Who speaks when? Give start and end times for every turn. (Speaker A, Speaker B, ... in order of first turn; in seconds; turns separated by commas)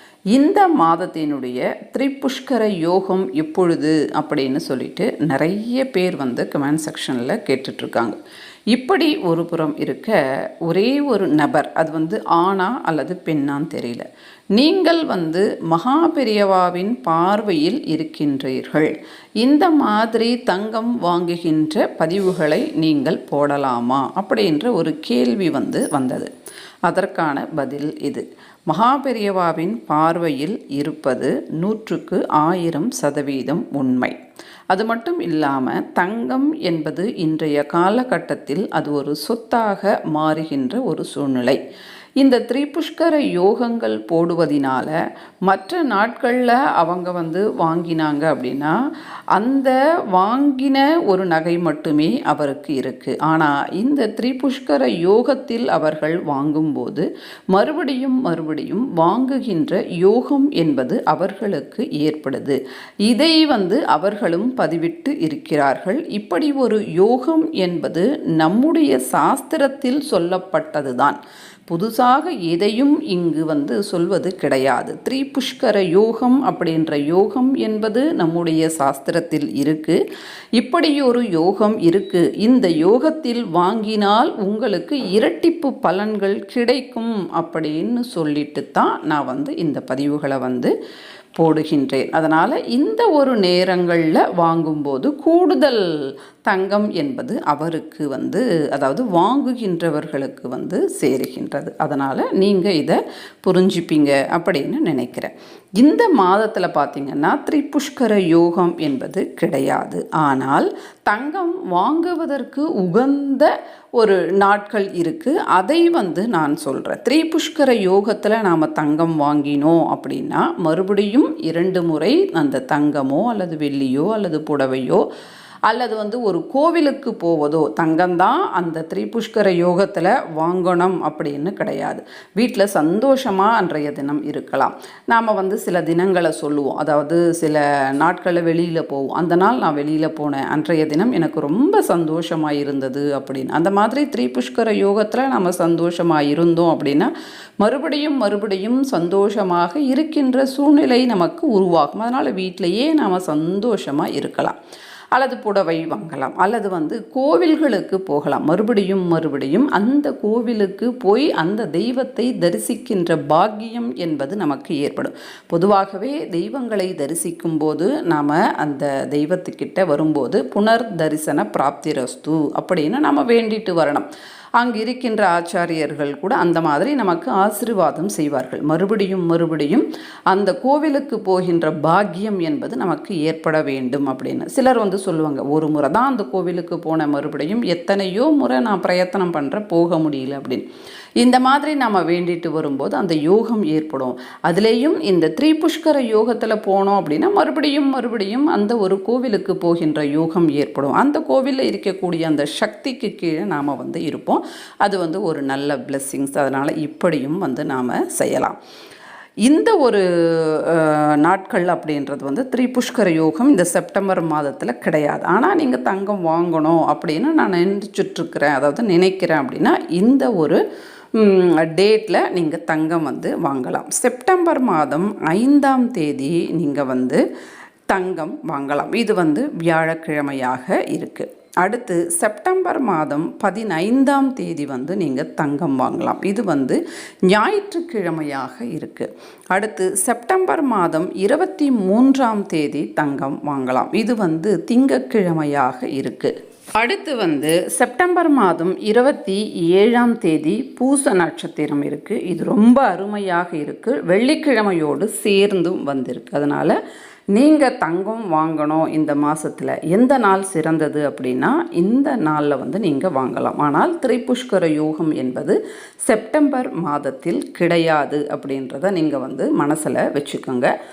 Speaker A: 0.3-8.2, Speaker A: 8.7-26.3, Speaker A: 26.9-34.2, Speaker A: 34.7-41.6, Speaker A: 42.2-44.9, Speaker A: 45.5-48.7, Speaker A: 49.3-71.2, Speaker A: 71.7-80.0, Speaker A: 80.6-90.7, Speaker A: 91.4-95.9, Speaker A: 96.5-125.0, Speaker A: 125.7-147.1, Speaker A: 147.6-154.6, Speaker A: 155.1-174.1, Speaker A: 174.6-190.6, Speaker A: 191.2-208.6, Speaker A: 209.4-220.6, Speaker A: 221.1-227.2, Speaker A: 227.9-256.8, Speaker A: 257.3-270.7